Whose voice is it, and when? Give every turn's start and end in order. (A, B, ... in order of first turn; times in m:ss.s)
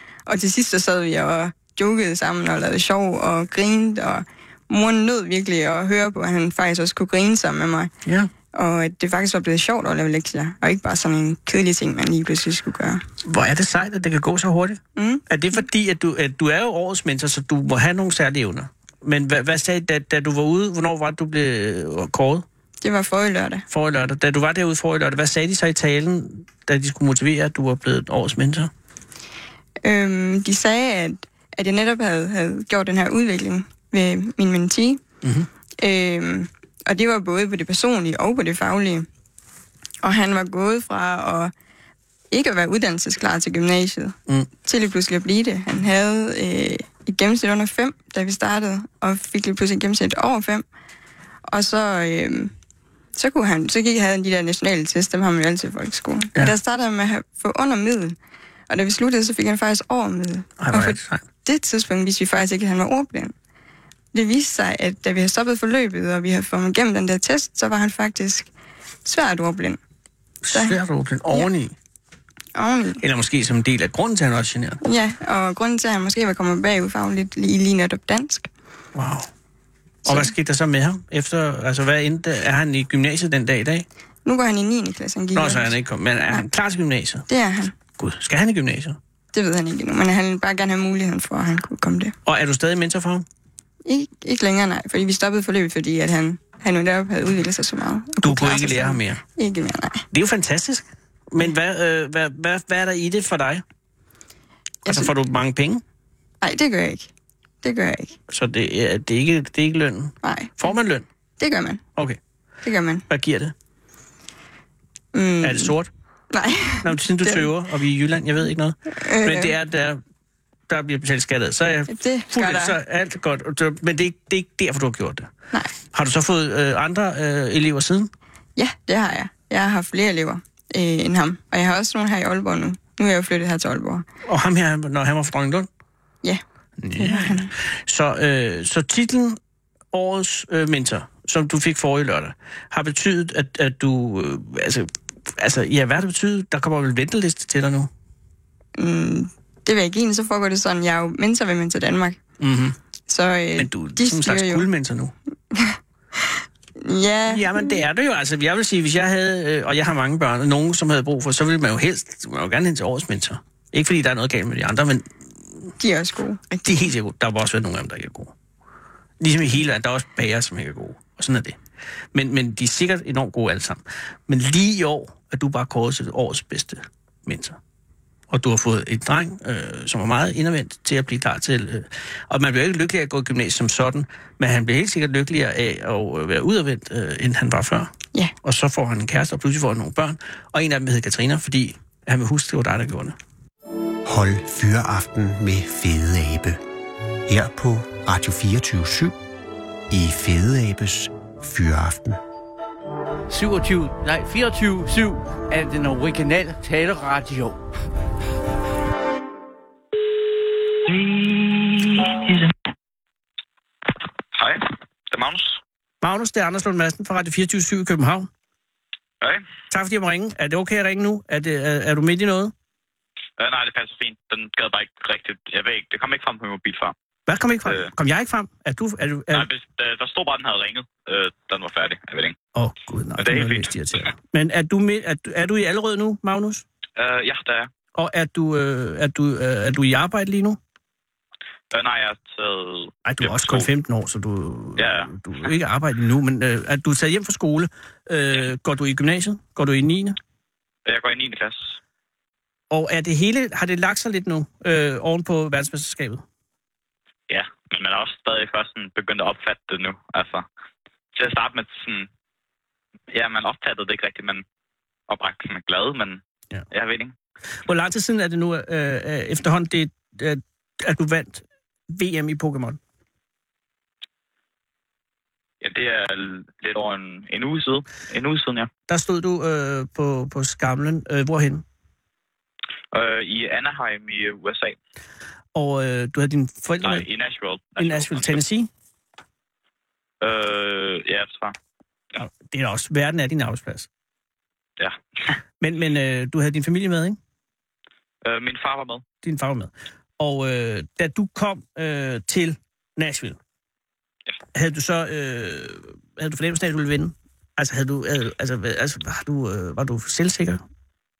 0:00.3-0:07.9 A
0:08.0-0:08.3 B
0:08.5-0:13.0 A
0:13.2-0:22.4 B
0:15.0-0:15.2 A
0:22.8-0:23.6 A
0:23.7-0:28.7 B
0:29.8-0:35.0 A
0:35.2-0:35.5 B
0:35.8-0:39.1 A
0:40.0-0:41.5 A
0:42.3-0:50.6 A
0:51.5-0:52.5 A
0:53.2-0:58.2 A
0:58.7-1:03.3 A
1:00.6-1:01.2 B
1:04.1-1:08.5 A
1:09.0-1:09.8 A
1:10.4-1:11.7 B
1:10.5-1:10.8 A
1:12.5-1:13.0 A
1:13.0-1:14.8 B
1:14.8-1:18.5 A
1:18.9-1:19.3 B
1:20.0-1:20.3 A
1:20.0-1:23.9 B
1:24.2-1:25.7 A
1:25.3-1:27.3 B
1:27.3-1:27.7 A
1:28.0-1:29.0 B
1:29.3-1:32.1 A
1:32.2-1:33.2 B
1:33.8-1:40.1 A
1:38.2-1:39.2 B
1:40.1-1:43.6 B
1:44.8-1:45.1 A
1:44.9-1:45.8 B
1:46.4-1:47.1 A
1:47.6-1:48.2 A
1:48.3-1:51.0 B
1:50.2-1:50.7 A
1:51.4-1:51.8 A
1:52.6-1:53.0 A
1:53.1-1:53.5 B
1:55.1-1:55.7 A
1:55.4-1:55.9 B
1:56.3-1:57.4 A
1:56.8-2:00.0 B
1:58.9-1:59.5 A
2:00.7-2:05.3 B
2:01.9-2:02.8 A
2:05.9-2:08.1 B
2:08.6-2:14.0 A
2:14.2-2:15.7 B
2:16.8-2:19.4 B
2:17.0-2:17.5 A
2:19.9-2:27.9 B
2:28.8-2:32.2 A
2:32.4-2:32.8 B
2:33.1-2:34.7 A
2:33.6-2:35.1 B
2:35.5-2:37.8 A
2:37.3-2:45.7 B
2:45.8-2:46.8 A
2:46.6-2:48.3 B
2:49.2-2:51.6 B
2:52.1-2:57.6 B
2:58.3-3:07.9 B
3:08.4-3:13.2 B
3:14.0-3:16.6 C
3:17.2-3:19.2 C
3:19.9-3:22.2 C
3:23.3-3:27.6 D
3:34.3-3:35.6 E
3:36.0-3:38.3 B
3:39.7-3:42.5 B
3:43.4-3:46.9 E
3:47.3-3:49.5 B
3:47.6-3:47.9 E
3:49.3-3:52.4 E
3:52.5-3:56.6 B
3:53.2-3:53.7 E
3:57.0-3:57.7 E
3:57.9-4:00.6 B
4:01.7-4:03.7 E
4:03.0-4:10.2 B
4:04.8-4:05.1 E
4:10.8-4:11.8 E
4:12.7-4:16.2 B
4:17.3-4:20.4 E
4:21.1-4:22.1 E
4:23.1-4:24.4 E
4:25.1-4:27.1 E
4:27.6-4:32.8 B
4:35.6-4:38.7 E
4:38.9-4:41.6 B
4:42.9-4:44.8 E
4:45.5-4:47.0 B
4:46.8-4:48.4 E
4:47.8-4:48.7 B
4:50.2-4:51.5 E
4:52.2-4:53.9 B
4:54.8-4:55.3 E
4:55.6-4:57.2 B
4:58.2-4:59.0 E
4:59.2-5:03.4 B
5:04.5-5:10.6 B